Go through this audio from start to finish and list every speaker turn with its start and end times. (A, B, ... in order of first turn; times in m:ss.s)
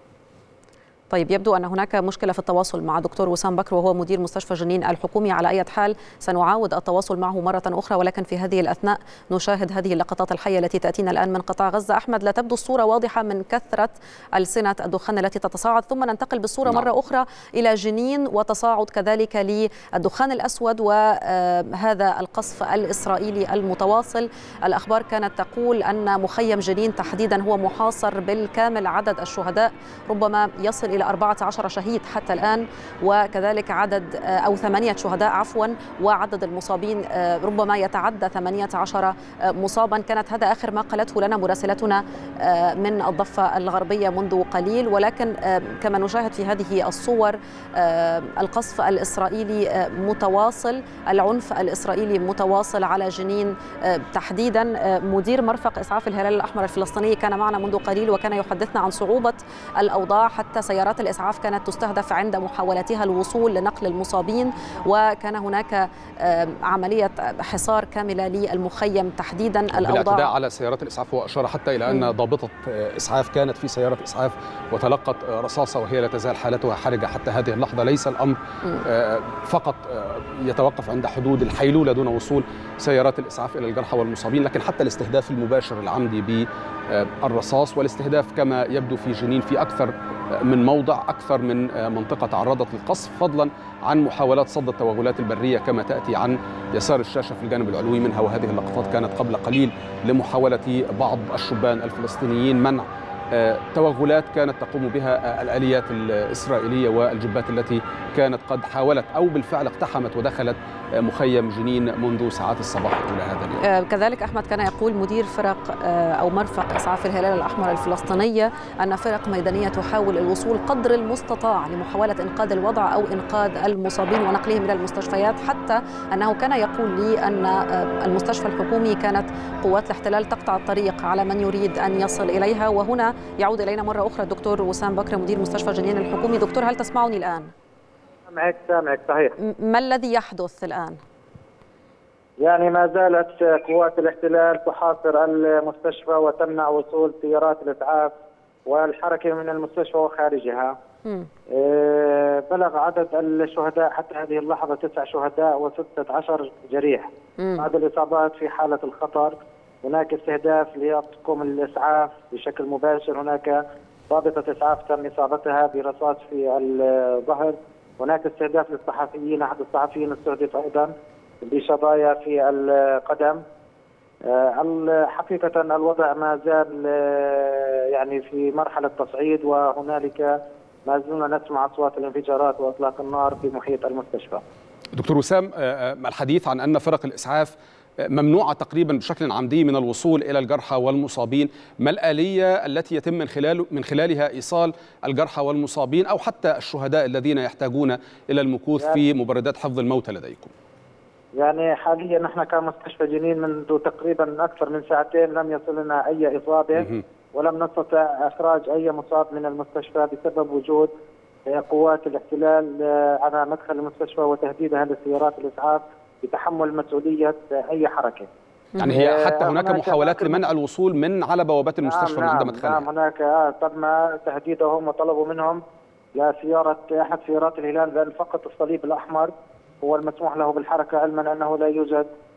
0:01.1-1:10.3 A
1:09.7-1:53.6 B
1:53.6-2:17.5 A
2:18.3-2:19.4 C
2:19.4-2:21.0 A
2:22.4-2:28.2 C
2:28.7-2:30.8 C
2:31.6-2:50.9 C
2:37.4-2:37.7 A
2:51.4-2:53.4 C
2:54.3-3:00.3 C
3:00.9-3:04.4 C
3:04.9-3:07.5 B
3:08.0-3:20.5 B
3:21.4-3:30.9 C
3:26.8-3:27.0 B
3:31.5-3:38.3 C
3:38.8-3:42.9 B
3:38.8-3:40.5 C
3:41.8-3:45.6 C
3:46.2-3:52.1 C